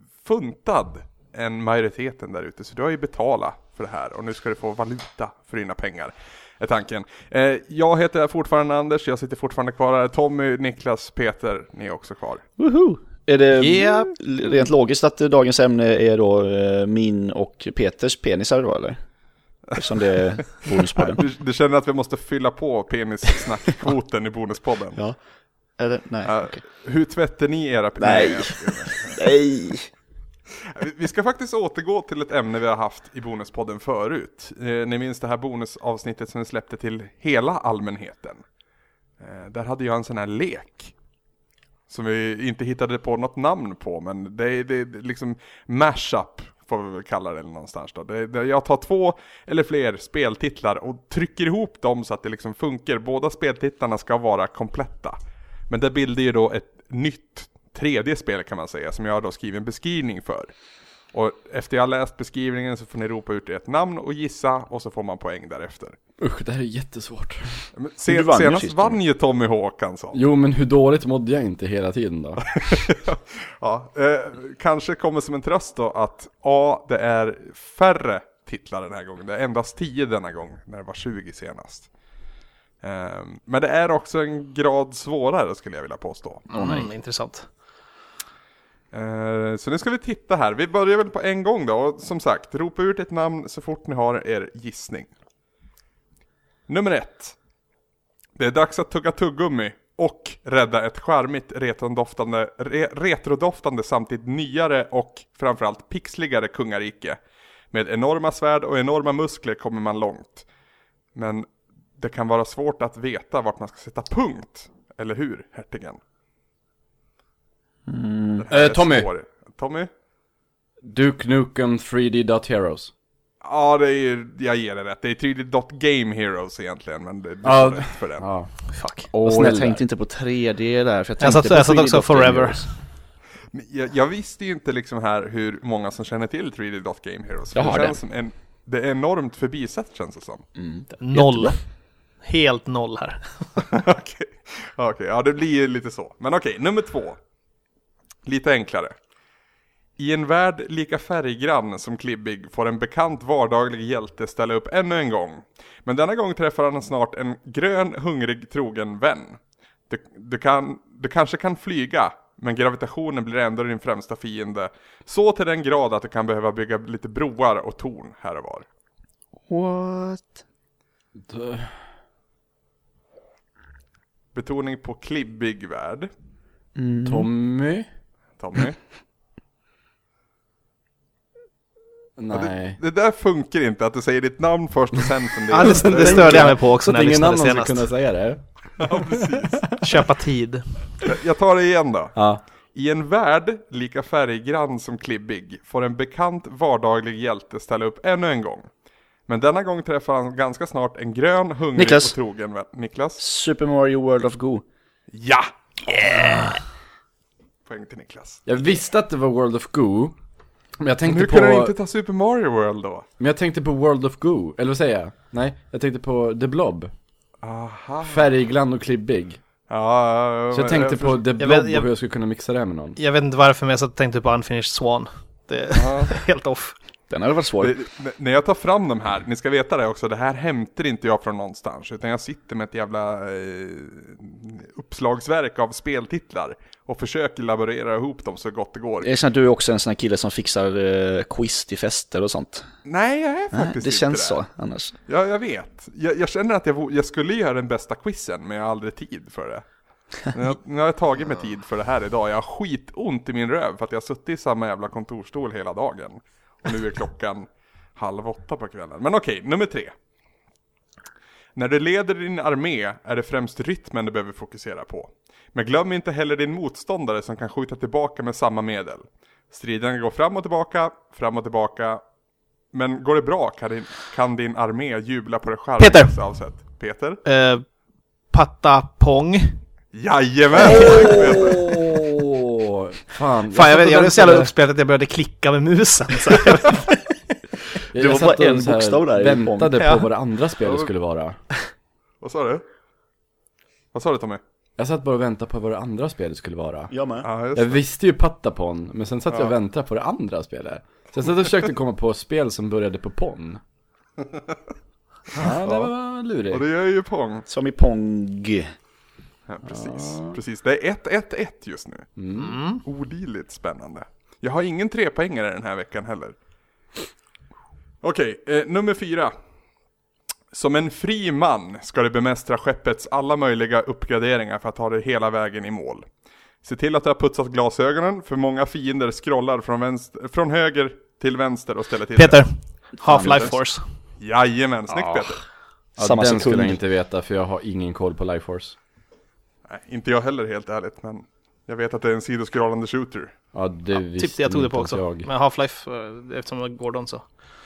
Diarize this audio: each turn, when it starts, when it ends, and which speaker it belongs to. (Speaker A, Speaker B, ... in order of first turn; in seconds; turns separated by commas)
Speaker A: 0.2-12.4, Speaker B: 12.6-19.0, Speaker C: 13.6-14.2, Speaker B: 19.8-21.2, Speaker A: 21.0-25.0, Speaker B: 25.8-26.6, Speaker A: 26.2-29.3, Speaker B: 28.0-29.9, Speaker A: 30.6-38.4, Speaker A: 39.2-40.9, Speaker A: 41.9-55.2, Speaker A: 55.7-60.5, Speaker A: 61.1-66.0, Speaker D: 66.2-67.6, Speaker A: 67.8-70.2, Speaker B: 68.1-69.0, Speaker D: 70.1-72.7, Speaker A: 72.6-81.9, Speaker A: 82.8-86.5, Speaker B: 86.5-86.9, Speaker C: 86.5-87.5, Speaker A: 88.9-95.1, Speaker A: 96.7-97.4, Speaker A: 98.4-107.2, Speaker A: 107.7-110.5, Speaker A: 111.2-116.0, Speaker B: 117.9-118.5, Speaker A: 118.4-119.9, Speaker D: 118.5-119.1, Speaker D: 120.8-122.9, Speaker A: 123.4-128.3, Speaker D: 127.4-128.5, Speaker C: 128.7-129.1, Speaker B: 129.1-132.7, Speaker D: 129.2-129.8, Speaker C: 131.2-132.6, Speaker A: 133.5-140.4, Speaker B: 137.5-138.0, Speaker B: 140.6-141.6, Speaker C: 141.0-141.6, Speaker C: 142.2-143.7, Speaker A: 143.7-147.2, Speaker A: 148.2-148.9, Speaker A: 150.0-159.4, Speaker A: 159.9-168.7, Speaker B: 169.5-170.4, Speaker D: 171.3-171.8, Speaker A: 174.3-176.1, Speaker B: 176.8-177.3, Speaker D: 177.1-177.9, Speaker A: 178.4-178.8, Speaker D: 182.2-182.8, Speaker A: 182.3-186.5, Speaker C: 185.5-187.9, Speaker D: 185.6-189.8, Speaker A: 188.8-189.7, Speaker C: 189.8-190.6, Speaker A: 191.0-192.2, Speaker D: 192.2-192.4, Speaker A: 192.8-198.7, Speaker A: 199.3-203.2, Speaker B: 201.8-202.2, Speaker B: 203.2-204.6, Speaker A: 205.1-206.6, Speaker A: 207.7-208.4, Speaker D: 208.5-210.2, Speaker D: 210.8-211.7, Speaker A: 211.1-213.1, Speaker D: 213.2-216.9, Speaker A: 217.4-218.3, Speaker D: 218.0-219.4, Speaker A: 219.7-221.2, Speaker D: 220.5-223.0, Speaker C: 221.4-221.9, Speaker C: 223.0-226.8, Speaker A: 225.7-226.2, Speaker B: 227.1-227.8, Speaker A: 227.6-239.1, Speaker B: 239.0-242.7, Speaker A: 242.8-244.4, Speaker B: 243.5-245.0, Speaker A: 245.1-249.7, Speaker A: 250.2-259.9, Speaker A: 261.6-272.0, Speaker A: 272.7-277.2, Speaker C: 275.8-276.1, Speaker C: 277.2-277.6, Speaker C: 278.3-279.6, Speaker A: 279.9-281.7, Speaker C: 280.6-281.1, Speaker D: 280.6-284.5, Speaker C: 283.5-287.0, Speaker D: 287.9-291.4, Speaker B: 287.9-289.9, Speaker A: 292.2-292.6, Speaker A: 293.9-294.4, Speaker D: 294.8-296.9, Speaker B: 296.9-297.3, Speaker A: 297.2-297.8, Speaker D: 297.6-303.6, Speaker D: 305.3-306.6, Speaker A: 305.6-305.9, Speaker A: 306.5-307.5, Speaker B: 307.5-308.7, Speaker A: 309.5-312.1, Speaker D: 309.7-310.4, Speaker D: 312.2-312.6, Speaker C: 312.4-312.8, Speaker A: 312.8-316.4, Speaker A: 318.0-319.3, Speaker A: 320.5-326.1, Speaker A: 326.6-332.5, Speaker C: 332.1-333.8, Speaker B: 333.0-333.6, Speaker A: 334.2-335.4, Speaker B: 336.0-336.8, Speaker D: 336.0-338.8, Speaker A: 339.7-343.4, Speaker D: 343.5-345.3, Speaker C: 344.1-347.2